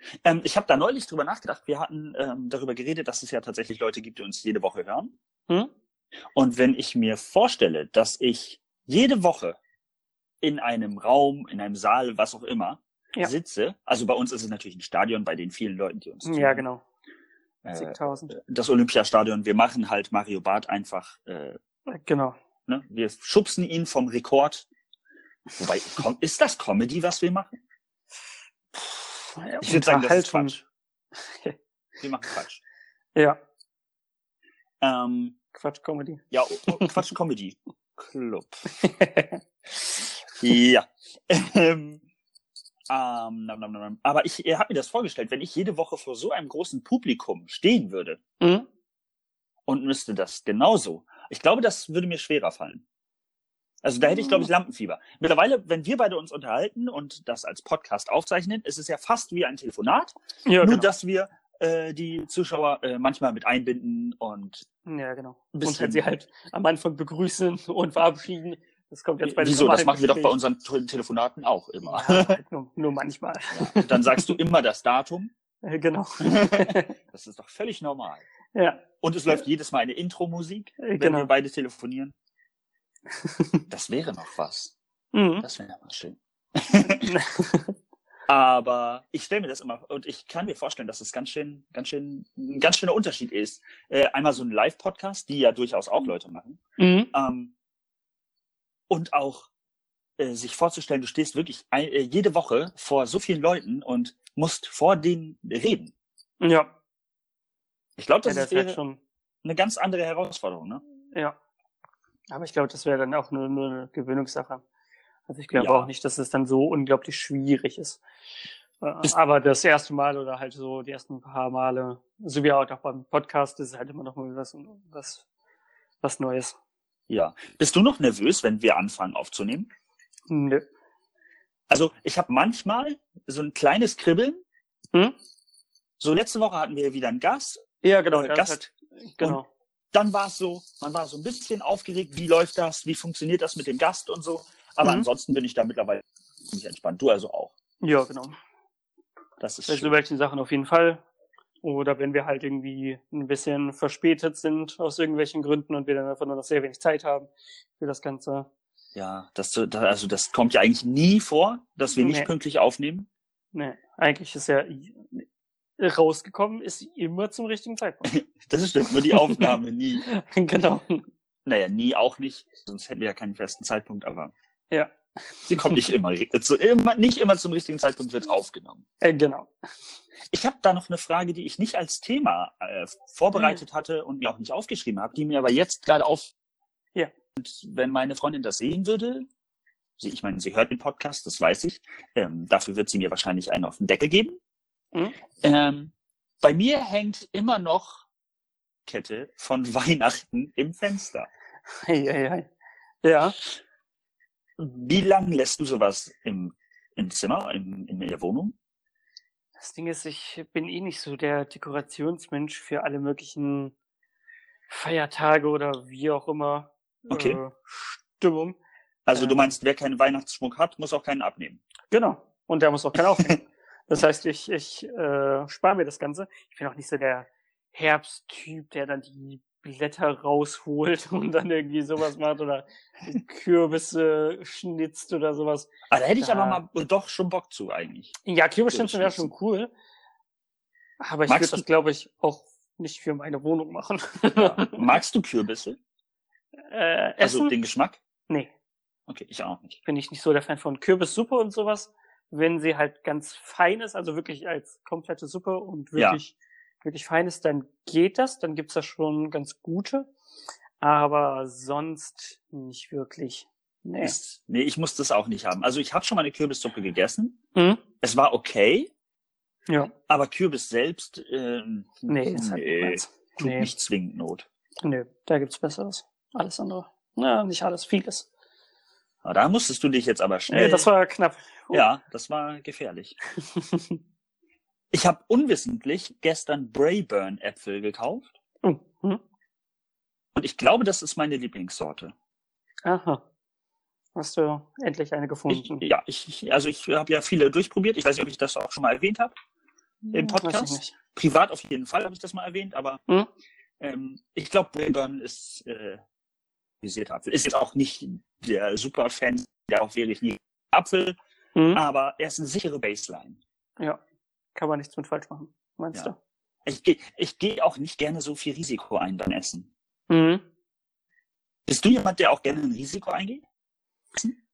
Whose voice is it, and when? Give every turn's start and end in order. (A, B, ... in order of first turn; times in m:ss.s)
0:00.2-0:05.1 A
0:06.3-0:09.6 A
0:10.4-0:16.6 A
0:16.2-0:16.8 B
0:17.6-0:21.6 A
0:17.7-0:18.3 B
0:21.9-0:22.4 B
0:22.7-0:24.7 A
0:25.6-0:27.5 A
0:28.8-0:30.6 B
0:29.6-0:30.6 A
0:31.1-0:31.6 B
0:32.0-0:32.6 A
0:34.8-0:35.4 A
0:35.5-0:37.0 B
0:36.3-0:38.7 A
0:38.8-0:40.1 B
0:40.4-0:42.0 A
0:42.9-0:48.2 A
0:48.4-0:48.7 B
0:49.7-0:52.8 A
0:53.8-1:04.6 A
0:54.1-0:54.5 B
1:00.4-1:00.9 B
1:04.8-1:10.4 B
1:05.5-1:06.0 A
1:09.2-1:12.4 A
1:11.8-1:14.4 B
1:13.5-1:15.3 A
1:15.6-1:16.9 B
1:16.2-1:18.2 A
1:18.5-1:18.8 B
1:19.0-1:22.1 A
1:20.8-1:21.3 B
1:23.1-1:23.6 B
1:23.7-1:24.7 A
1:25.1-1:25.4 B
1:25.4-1:27.2 A
1:26.8-1:27.7 B
1:28.3-1:36.6 A
1:36.8-1:37.1 B
1:37.1-1:37.5 A
1:38.9-1:39.5 A
1:40.2-1:45.9 A
1:46.4-1:46.7 B
1:48.0-1:48.8 A
1:48.2-1:49.0 B
1:49.4-1:50.8 A
1:52.3-1:54.6 B
1:55.3-1:58.0 B
1:55.6-1:55.9 A
1:58.8-2:05.2 B
2:06.0-2:06.6 B
2:07.1-2:09.7 A
2:10.3-2:10.6 B
2:11.7-2:14.4 A
2:16.0-2:19.4 A
2:17.8-2:19.5 B
2:19.9-2:27.5 A
2:27.8-2:28.3 B
2:29.4-2:29.9 A
2:29.7-2:31.0 B
2:31.6-2:38.5 B
2:38.9-2:43.1 A
2:42.0-2:42.3 B
2:43.5-2:45.2 B
2:45.8-2:48.1 B
2:48.0-2:50.0 A
2:49.1-2:51.0 B
2:51.4-2:54.3 A
2:54.7-2:55.9 B
2:55.4-2:58.8 A
2:59.0-2:59.5 B
3:00.3-3:06.3 A
3:03.3-3:03.6 B
3:07.4-3:09.3 A
3:10.0-3:14.4 A
3:15.4-3:18.1 A
3:18.8-3:21.3 A
3:21.8-3:22.5 B
3:23.0-3:23.4 B
3:24.6-3:28.5 A
3:29.6-3:33.7 B
3:34.7-3:38.6 B
3:37.1-3:37.4 A
3:39.0-3:41.6 A
3:39.1-3:39.5 B
3:41.9-3:55.7 B
3:55.9-3:58.1 A
3:56.2-3:56.6 B
3:58.2-3:59.7 B
3:58.7-3:59.3 A
4:01.0-4:05.0 B
4:01.3-4:01.6 A
4:04.3-4:05.8 A
4:06.7-4:07.5 B
4:07.2-4:08.0 A
4:09.1-4:09.8 A
4:09.8-4:20.1 B
4:20.8-4:24.1 B
4:24.0-4:27.4 A
4:27.5-4:27.8 B
4:28.0-4:28.9 A
4:29.7-4:29.9 B
4:30.1-4:34.5 A
4:32.1-4:33.7 B
4:34.8-4:38.3 B
4:39.2-4:40.9 A
4:40.5-4:41.8 B
4:41.7-4:43.2 A
4:43.4-4:44.0 B
4:44.9-4:48.3 A
4:48.6-4:49.2 B
4:50.3-4:52.1 A
4:52.8-4:53.2 B
4:54.1-4:55.8 B
4:55.5-4:59.3 A
5:00.0-5:00.9 B
5:00.1-5:03.0 A
5:03.8-5:06.0 A
5:06.8-5:11.2 A
5:11.6-5:11.8 B
5:11.7-5:13.4 A
5:14.5-5:16.2 B
5:16.6-5:19.7 A
5:20.1-5:20.4 B
5:21.7-5:23.4 A